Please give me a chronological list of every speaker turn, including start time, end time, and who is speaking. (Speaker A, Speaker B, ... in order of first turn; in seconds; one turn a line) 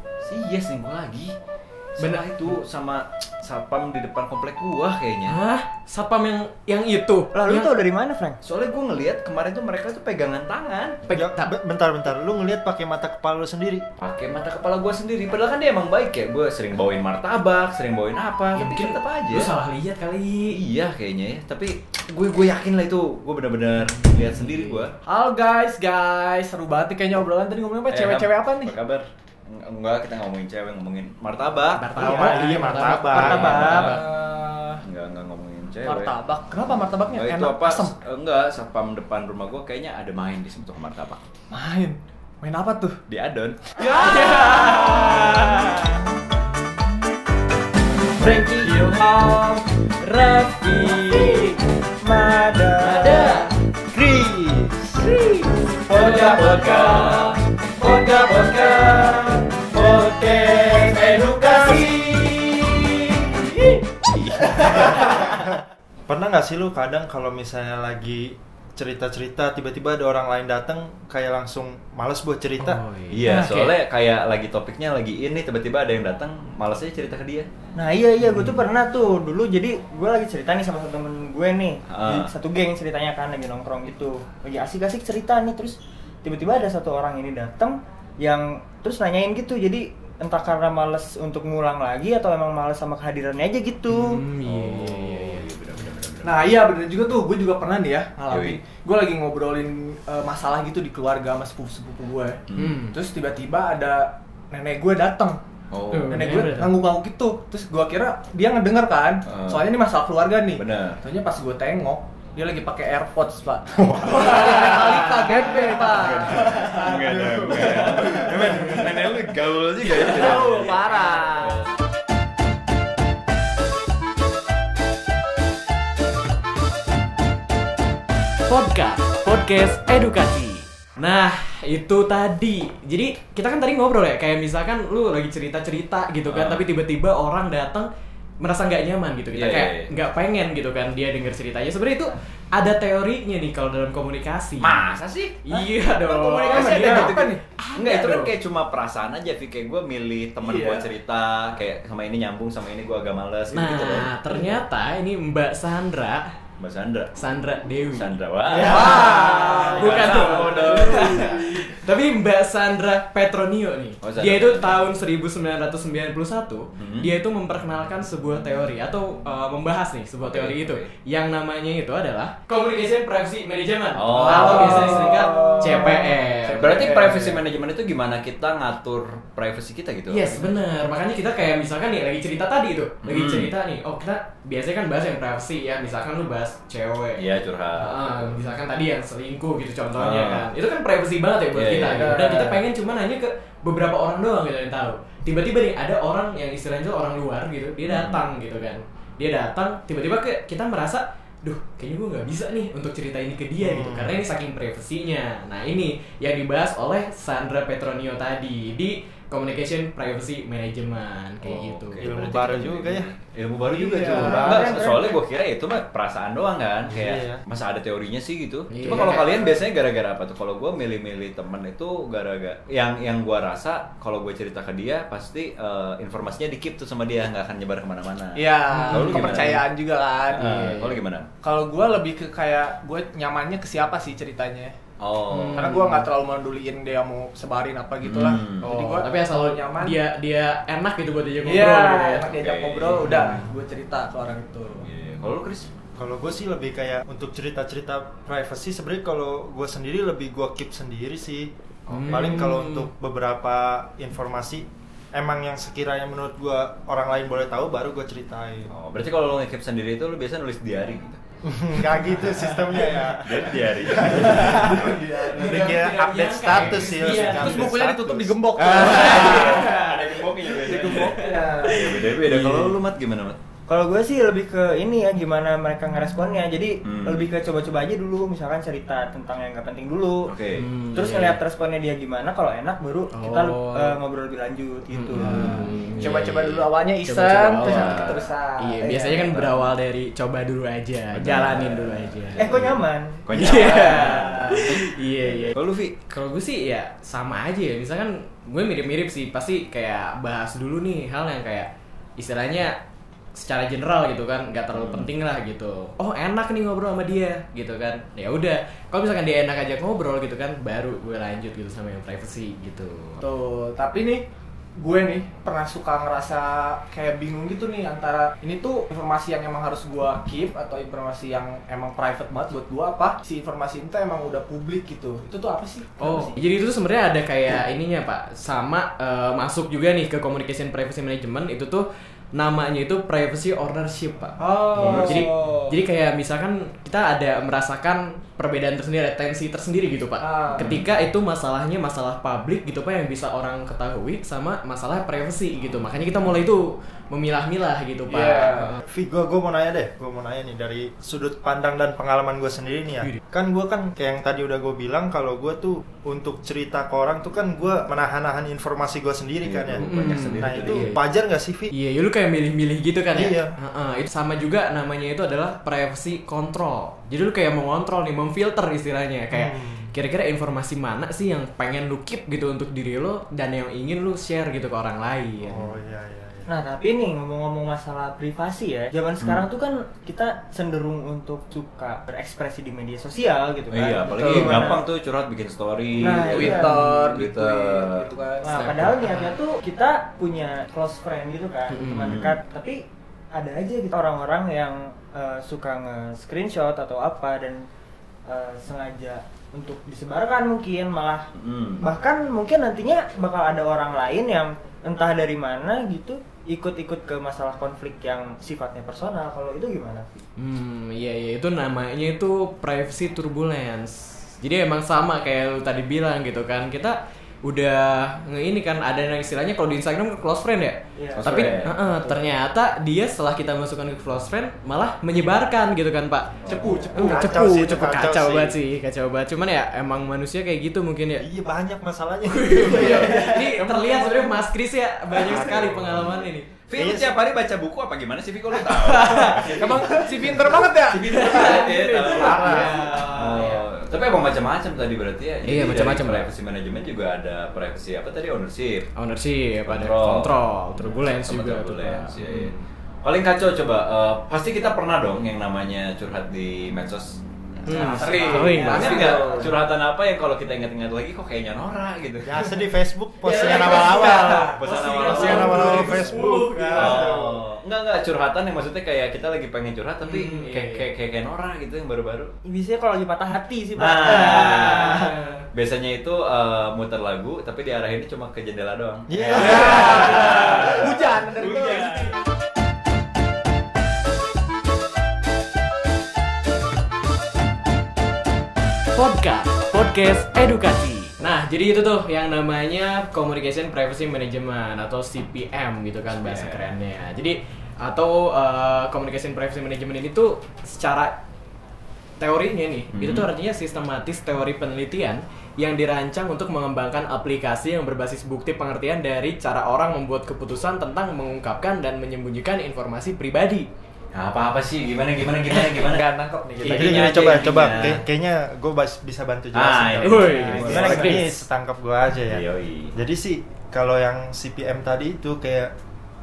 Speaker A: 0.2-1.3
Speaker A: 2.0-5.4
Speaker B: 2.0-2.6
Speaker B: 5.3-7.7
Speaker C: 7.3-8.4
Speaker A: 8.4-11.0
Speaker B: 11.0-11.5
Speaker D: 11.1-13.9
Speaker A: 14.0-19.5
Speaker B: 18.6-20.6
Speaker A: 20.5-24.9
Speaker B: 23.8-24.8
Speaker E: 25.1-28.8
Speaker A: 27.9-32.0
Speaker B: 31.7-34.1
Speaker D: 31.9-33.9
Speaker C: 33.0-33.9
Speaker A: 33.4-34.0
Speaker E: 33.9-34.8
Speaker A: 34.8-36.2
Speaker E: 35.8-38.0
Speaker A: 37.1-41.2
Speaker E: 41.5-43.0
Speaker A: 43.1-45.1
Speaker B: 43.8-46.0
Speaker A: 48.2-49.6
Speaker B: 50.0-51.5
Speaker C: 50.5-54.2
Speaker A: 52.8-53.4
Speaker B: 53.2-53.5
Speaker A: 54.0-55.0
Speaker A: 55.9-62.8
Speaker B: 55.9-57.3
Speaker B: 61.4-62.5
Speaker B: 63.6-65.2
Speaker A: 64.4-65.2
Speaker D: 64.7-65.4
Speaker D: 66.1-72.8
Speaker B: 72.6-73.8
Speaker A: 73.1-77.5
Speaker C: 77.8-94.2
Speaker A: 81.9-82.3
Speaker B: 93.9-95.5
Speaker A: 94.4-96.5
Speaker E: 96.2-105.4
Speaker A: 98.3-98.6
Speaker A: 102.5-102.8
Speaker B: 102.5-103.0
Speaker A: 105.7-106.2
Speaker B: 105.9-106.8
Speaker E: 106.1-117.7
Speaker A: 109.3-109.7
Speaker A: 110.6-111.0
Speaker A: 113.8-114.4
Speaker B: 114.2-115.8
Speaker A: 115.9-121.7
Speaker E: 120.0-121.6
Speaker B: 120.3-121.4
Speaker B: 128.4-137.9
Speaker A: 136.2-136.6
Speaker B: 138.4-144.8
Speaker A: 139.3-140.0
Speaker A: 144.6-145.5
Speaker B: 145.4-148.3
Speaker E: 145.6-147.4
Speaker A: 146.5-154.5
Speaker E: 150.5-150.9
Speaker B: 153.5-156.4
Speaker A: 156.6-157.1
Speaker B: 157.1-176.9
Speaker A: 157.9-161.5
Speaker E: 158.6-160.9
Speaker A: 164.0-164.8
Speaker A: 166.8-167.1
Speaker A: 170.2-170.9
Speaker A: 173.9-175.2
Speaker E: 174.2-175.6
Speaker A: 176.5-180.5
Speaker B: 180.1-187.2
Speaker A: 183.0-183.5
Speaker A: 187.2-188.4
Speaker B: 187.8-212.4
Speaker A: 190.0-190.5
Speaker A: 191.5-192.3
Speaker E: 192.2-192.6
Speaker A: 197.8-198.2
Speaker D: 203.6-204.2
Speaker A: 211.4-229.7
Speaker D: 212.0-213.1
Speaker E: 213.7-214.7
Speaker C: 214.1-215.1
Speaker D: 216.9-217.4
Speaker B: 218.7-219.1
Speaker E: 219.1-219.4
Speaker E: 228.4-230.5
Speaker B: 228.7-229.6
Speaker B: 230.3-231.0
Speaker A: 230.3-231.3
Speaker E: 231.4-234.8
Speaker A: 235.0-235.8
Speaker B: 235.3-236.1
Speaker E: 235.6-240.0
Speaker A: 238.0-238.7
Speaker B: 238.6-242.4
Speaker E: 241.4-244.9
Speaker A: 242.3-243.1
Speaker B: 243.0-243.4
Speaker A: 244.8-245.7
Speaker D: 246.0-251.5
Speaker A: 251.9-252.2
Speaker B: 251.9-252.9
Speaker D: 252.1-258.7
Speaker A: 258.7-261.2
Speaker D: 261.4-268.9
Speaker A: 263.2-265.0
Speaker E: 264.3-265.8
Speaker B: 265.4-267.7
Speaker E: 267.0-269.8
Speaker A: 268.6-273.4
Speaker B: 268.8-270.0
Speaker E: 270.7-271.8
Speaker B: 271.1-272.7
Speaker C: 273.7-280.3
Speaker A: 276.8-277.3
Speaker A: 280.3-280.7
Speaker B: 280.6-281.4
Speaker C: 280.9-285.7
Speaker B: 283.1-283.9
Speaker B: 284.9-292.7
Speaker E: 285.2-289.6
Speaker A: 287.7-288.2
Speaker A: 291.1-296.0
Speaker C: 292.4-294.2
Speaker B: 293.3-295.6
Speaker E: 294.2-294.7
Speaker B: 296.1-302.8
Speaker B: 303.4-313.2
Speaker A: 304.7-305.1
Speaker E: 313.2-314.3
Speaker E: 314.8-326.4
Speaker B: 326.0-348.8
Speaker E: 334.4-335.3
Speaker A: 334.8-335.2
Speaker C: 334.8-335.7
Speaker E: 340.2-340.7
Speaker A: 340.6-340.8
Speaker E: 348.1-348.8
Speaker D: 348.8-361.7
Speaker A: 359.4-360.9
Speaker B: 359.8-361.0
Speaker B: 361.7-375.8
Speaker D: 363.1-363.5
Speaker D: 369.3-369.9
Speaker D: 375.4-376.5
Speaker C: 376.5-384.8
Speaker A: 379.2-379.5
Speaker A: 383.7-388.1
Speaker E: 384.1-384.6
Speaker C: 386.0-387.0
Speaker E: 386.1-388.6
Speaker C: 388.4-392.8
Speaker B: 388.6-389.4
Speaker B: 391.7-392.2
Speaker A: 392.1-392.3
Speaker C: 393.3-397.7
Speaker C: 398.3-401.3
Speaker A: 401.3-401.9
Speaker C: 401.8-410.1
Speaker B: 410.4-431.3
Speaker C: 421.0-422.2
Speaker A: 421.2-421.7
Speaker A: 426.4-426.8
Speaker D: 426.5-428.6
Speaker D: 431.2-433.4
Speaker B: 432.2-436.6
Speaker E: 432.8-434.2
Speaker D: 435.2-437.2
Speaker A: 436.6-439.7
Speaker B: 438.9-440.1
Speaker E: 439.1-442.7
Speaker A: 440.7-448.9
Speaker B: 441.1-443.7
Speaker D: 442.0-442.8
Speaker B: 445.4-446.3
Speaker B: 448.9-452.6
Speaker A: 449.7-462.4
Speaker B: 457.7-459.3
Speaker E: 458.0-459.6
Speaker C: 458.1-459.3
Speaker D: 462.2-467.4
Speaker B: 463.2-467.1
Speaker E: 463.4-464.5
Speaker A: 464.4-466.0
Speaker A: 466.7-472.4
Speaker B: 470.0-470.9
Speaker C: 472.4-475.1
Speaker A: 473.8-474.9
Speaker B: 474.5-475.4
Speaker A: 475.5-480.9
Speaker D: 479.1-480.1
Speaker E: 479.4-482.1
Speaker A: 481.4-482.0
Speaker B: 488.9-501.2
Speaker A: 496.1-496.7
Speaker B: 502.2-513.7
Speaker A: 502.9-503.3
Speaker A: 514.1-516.0
Speaker E: 515.7-517.2
Speaker A: 516.6-518.0
Speaker D: 516.6-522.4
Speaker A: 519.5-520.7
Speaker B: 520.0-521.3
Speaker E: 520.5-520.8
Speaker C: 520.7-521.1
Speaker A: 522.3-522.9
Speaker D: 523.0-525.7